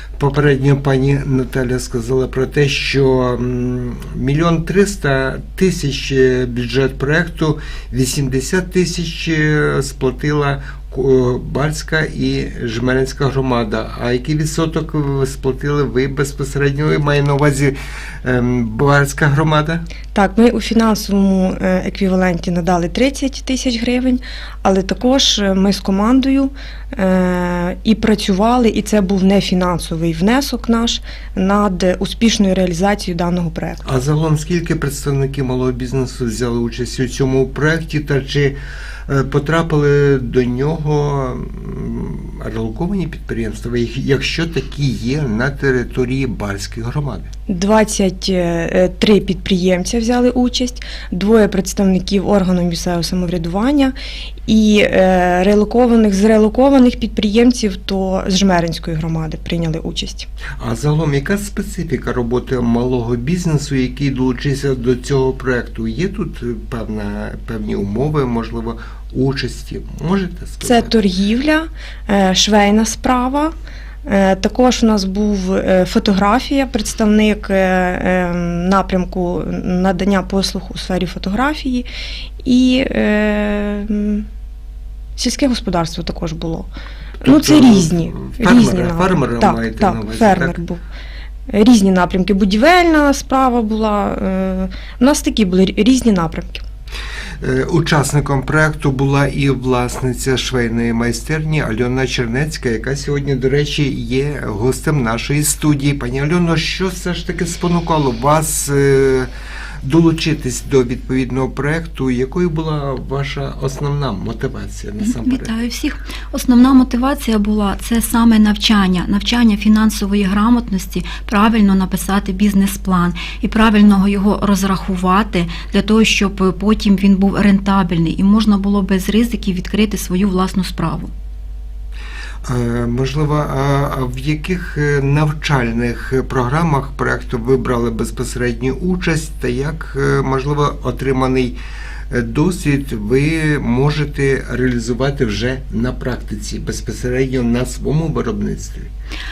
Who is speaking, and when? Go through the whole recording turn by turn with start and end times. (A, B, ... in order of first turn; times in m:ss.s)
0:00.2-0:19.9 A
0:20.1-0:33.9 B
0:33.8-0:47.3 A
0:47.5-0:53.9 B
0:54.5-1:00.3 B
1:00.6-1:10.9 A
1:10.6-1:13.5 B
1:14.0-1:21.9 B
1:22.4-1:24.3 B
1:25.2-1:26.7 B
1:27.2-1:30.8 B
1:27.2-1:30.6 A
1:31.5-1:36.6 B
1:37.4-1:49.3 A
1:49.8-1:55.5 A
1:55.0-2:11.1 C
2:12.4-2:21.6 A
2:22.1-2:28.9 A